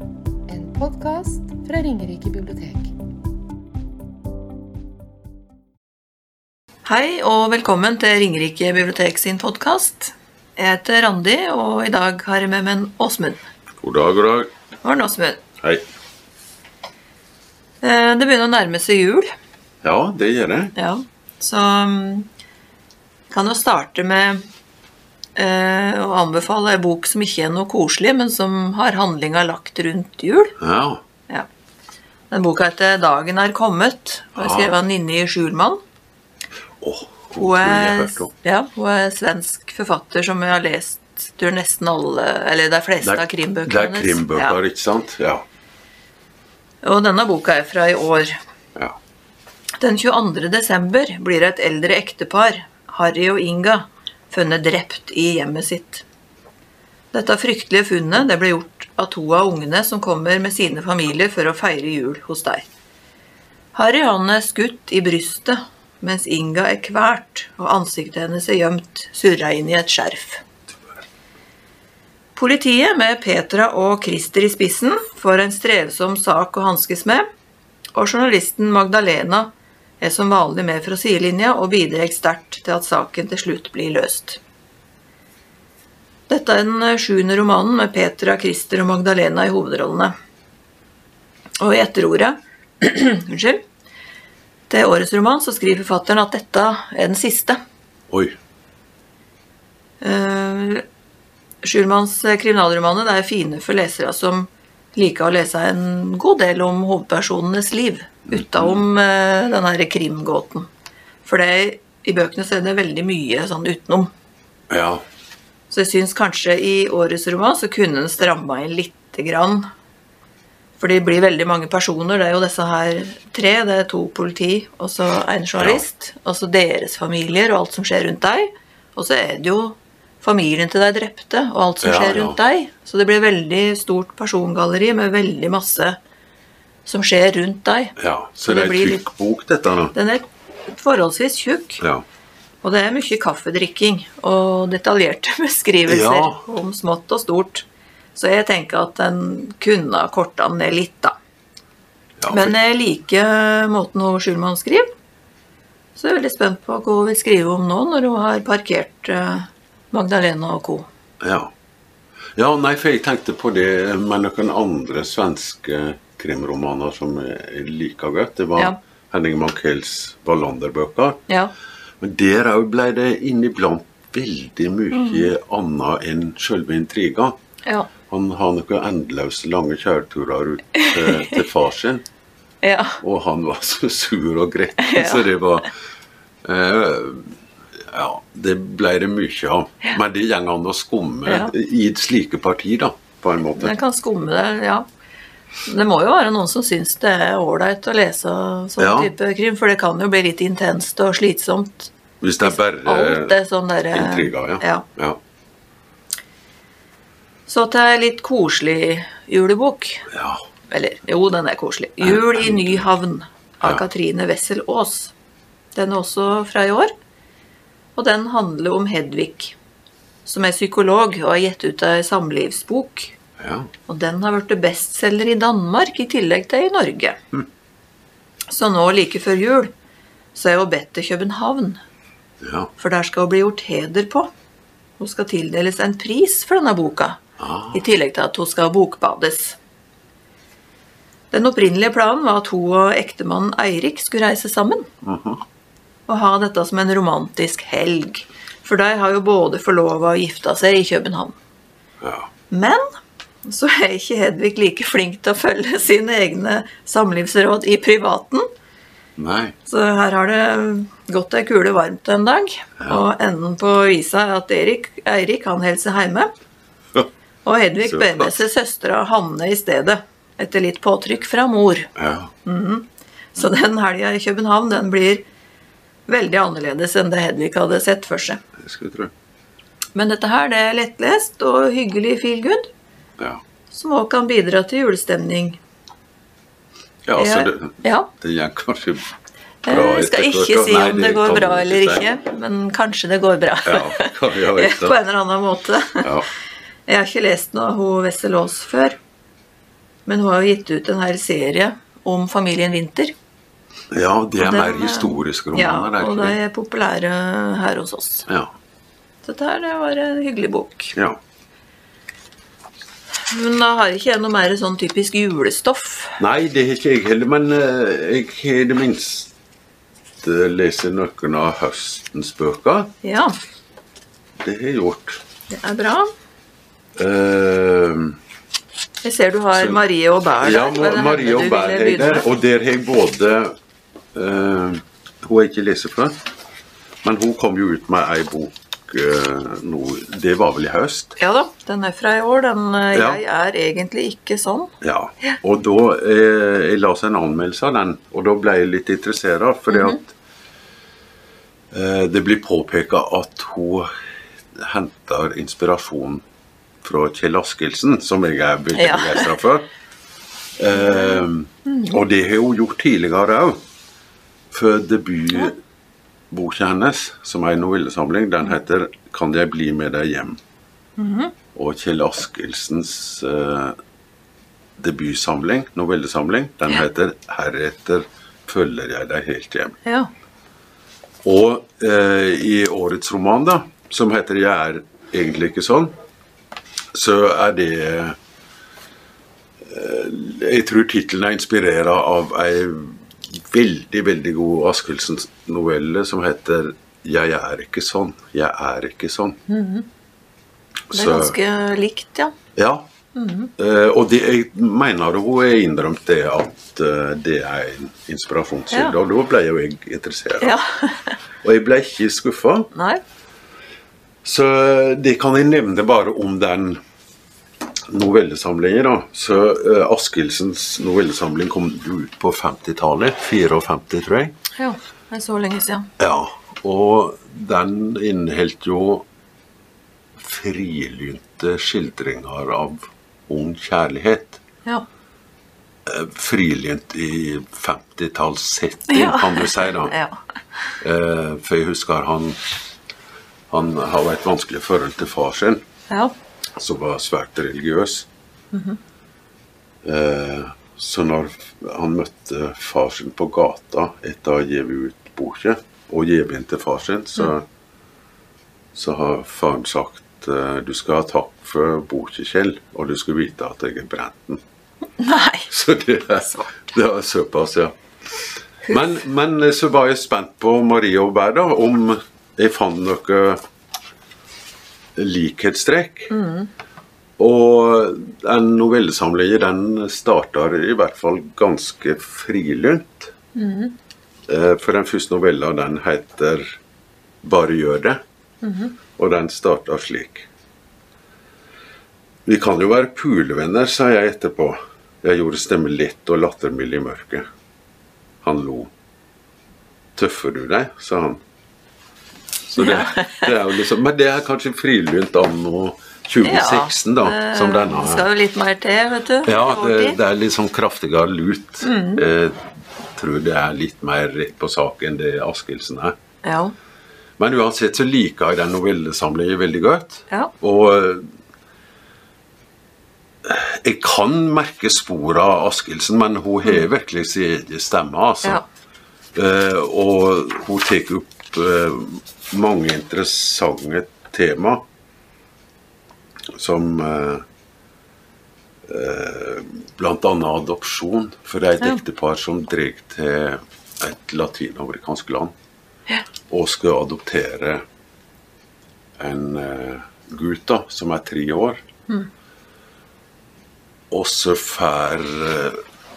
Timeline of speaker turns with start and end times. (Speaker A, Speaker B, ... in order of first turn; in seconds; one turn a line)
Speaker A: 0.5-2.9
Speaker B: 6.8-13.4
Speaker C: 13.8-14.5
Speaker B: 14.8-15.4
Speaker B: 17.8-19.3
Speaker C: 19.8-20.7
Speaker B: 20.8-22.3
Speaker B: 23.3-24.4
Speaker B: 25.4-30.6
Speaker C: 30.6-31.0
Speaker B: 32.3-35.8
Speaker C: 34.4-34.8
Speaker C: 36.8-38.3
Speaker B: 37.4-44.6
Speaker C: 43.0-45.5
Speaker B: 46.8-48.4
Speaker B: 49.8-56.0
Speaker B: 57.1-62.7
Speaker B: 63.8-70.4
Speaker B: 72.4-77.3
Speaker B: 78.0-84.4
Speaker B: 86.3-90.1
Speaker B: 91.6-93.6
Speaker B: 94.7-97.6
Speaker C: 98.1-98.4
Speaker B: 100.0-100.8
Speaker B: 101.6-110.7
Speaker C: 108.3-108.8
Speaker B: 111.2-114.1
Speaker C: 114.7-115.0
Speaker B: 115.7-119.7
Speaker B: 120.8-136.0
Speaker C: 131.8-132.4
Speaker B: 136.9-139.0
Speaker C: 138.0-139.9
Speaker B: 139.9-141.8
Speaker C: 141.8-142.1
Speaker B: 142.6-151.2
Speaker C: 145.9-146.4
Speaker C: 152.2-152.5
Speaker B: 152.3-154.9
Speaker B: 156.0-160.9
Speaker C: 161.2-161.5
Speaker C: 162.4-171.2
Speaker B: 171.3-171.5
Speaker C: 172.0-177.4
Speaker B: 174.9-175.3
Speaker B: 177.7-177.9
Speaker C: 178.1-182.0
Speaker B: 180.8-181.4
Speaker B: 182.6-183.0
Speaker C: 183.0-185.7
Speaker B: 184.8-185.3
Speaker C: 186.4-187.4
Speaker C: 187.9-193.8
Speaker B: 191.3-191.5
Speaker B: 193.6-194.9
Speaker B: 195.7-201.9
Speaker C: 198.8-199.1
Speaker C: 202.2-203.4
Speaker B: 202.4-204.9
Speaker C: 203.9-205.2
Speaker B: 207.5-210.1
Speaker C: 210.1-210.4
Speaker B: 210.7-215.1
Speaker C: 212.0-212.8
Speaker B: 215.8-216.9
Speaker B: 218.0-219.6
Speaker B: 220.2-223.2
Speaker C: 223.4-223.7
Speaker B: 223.9-227.2
Speaker B: 228.5-229.7
Speaker B: 230.3-231.8
Speaker C: 232.4-232.7
Speaker B: 232.8-234.3
Speaker B: 235.0-237.2
Speaker C: 237.4-237.8
Speaker B: 237.7-239.6
Speaker B: 241.3-244.9
Speaker C: 245.0-245.4
Speaker B: 246.1-251.4
Speaker C: 252.0-252.3
Speaker B: 252.5-252.8
Speaker B: 253.4-258.5
Speaker C: 259.2-259.6
Speaker B: 259.7-266.3
Speaker B: 267.4-271.9
Speaker C: 267.8-268.3
Speaker C: 272.0-272.3
Speaker B: 272.4-275.2
Speaker B: 276.1-278.4
Speaker C: 278.6-279.1
Speaker B: 279.9-282.7
Speaker B: 283.7-285.6
Speaker C: 287.1-289.1
Speaker B: 287.2-288.1
Speaker B: 289.6-296.1
Speaker C: 289.7-292.1
Speaker C: 293.6-295.0
Speaker B: 296.9-299.0
Speaker B: 300.1-303.1
Speaker C: 303.9-306.4
Speaker B: 304.4-308.3
Speaker C: 308.3-308.5
Speaker B: 309.2-310.9
Speaker B: 313.3-316.2
Speaker C: 316.2-319.3
Speaker C: 320.2-322.9
Speaker B: 323.0-323.3
Speaker C: 324.4-325.2
Speaker B: 325.5-326.1
Speaker C: 327.0-328.2
Speaker B: 329.0-332.2
Speaker C: 329.6-329.8
Speaker C: 330.4-333.6
Speaker C: 334.1-336.2
Speaker C: 337.0-341.2
Speaker B: 341.2-344.7
Speaker C: 342.9-343.2
Speaker C: 344.8-350.1
Speaker B: 349.7-350.0
Speaker C: 351.7-353.9
Speaker C: 354.5-356.2
Speaker C: 356.8-359.7
Speaker B: 358.8-359.3
Speaker C: 360.6-363.6
Speaker B: 360.7-362.0
Speaker C: 364.5-365.6
Speaker C: 366.3-370.4
Speaker B: 371.0-371.3
Speaker C: 371.5-373.8
Speaker C: 374.8-379.8
Speaker B: 379.9-380.1
Speaker C: 381.2-385.9
Speaker C: 386.9-388.2
Speaker C: 389.6-399.4
Speaker B: 399.5-399.9
Speaker C: 400.9-401.4
Speaker B: 400.9-402.4
Speaker C: 402.6-402.9
Speaker B: 403.1-403.5
Speaker C: 403.6-410.6
Speaker B: 410.4-411.2
Speaker C: 411.4-412.7
Speaker B: 412.7-413.0
Speaker C: 414.2-416.8
Speaker C: 417.9-424.4
Speaker B: 424.6-425.9
Speaker C: 426.0-429.1
Speaker C: 430.2-434.4
Speaker C: 435.9-439.9
Speaker B: 438.9-440.2
Speaker C: 440.8-442.4
Speaker C: 443.5-445.6
Speaker C: 446.6-448.1
Speaker B: 448.5-448.8
Speaker C: 449.8-457.4
Speaker C: 458.7-464.4
Speaker B: 465.0-465.5
Speaker C: 465.5-467.8
Speaker C: 468.7-473.4
Speaker C: 475.0-476.1
Speaker B: 476.1-476.5
Speaker C: 477.2-483.1
Speaker B: 483.4-483.8
Speaker C: 484.3-486.6
Speaker C: 487.2-488.0
Speaker B: 488.4-488.7
Speaker C: 489.0-490.3
Speaker C: 492.2-497.3
Speaker C: 498.2-498.7
Speaker C: 500.0-501.2
Speaker C: 502.5-508.1
Speaker B: 502.5-503.3
Speaker B: 506.2-510.0
Speaker C: 509.2-516.0
Speaker B: 511.6-512.0
Speaker B: 516.2-516.5
Speaker C: 517.2-521.0
Speaker C: 523.2-528.4
Speaker C: 529.1-534.6
Speaker C: 536.3-537.2
Speaker C: 538.7-545.3
Speaker C: 546.3-547.6
Speaker C: 549.0-551.6
Speaker C: 553.9-555.6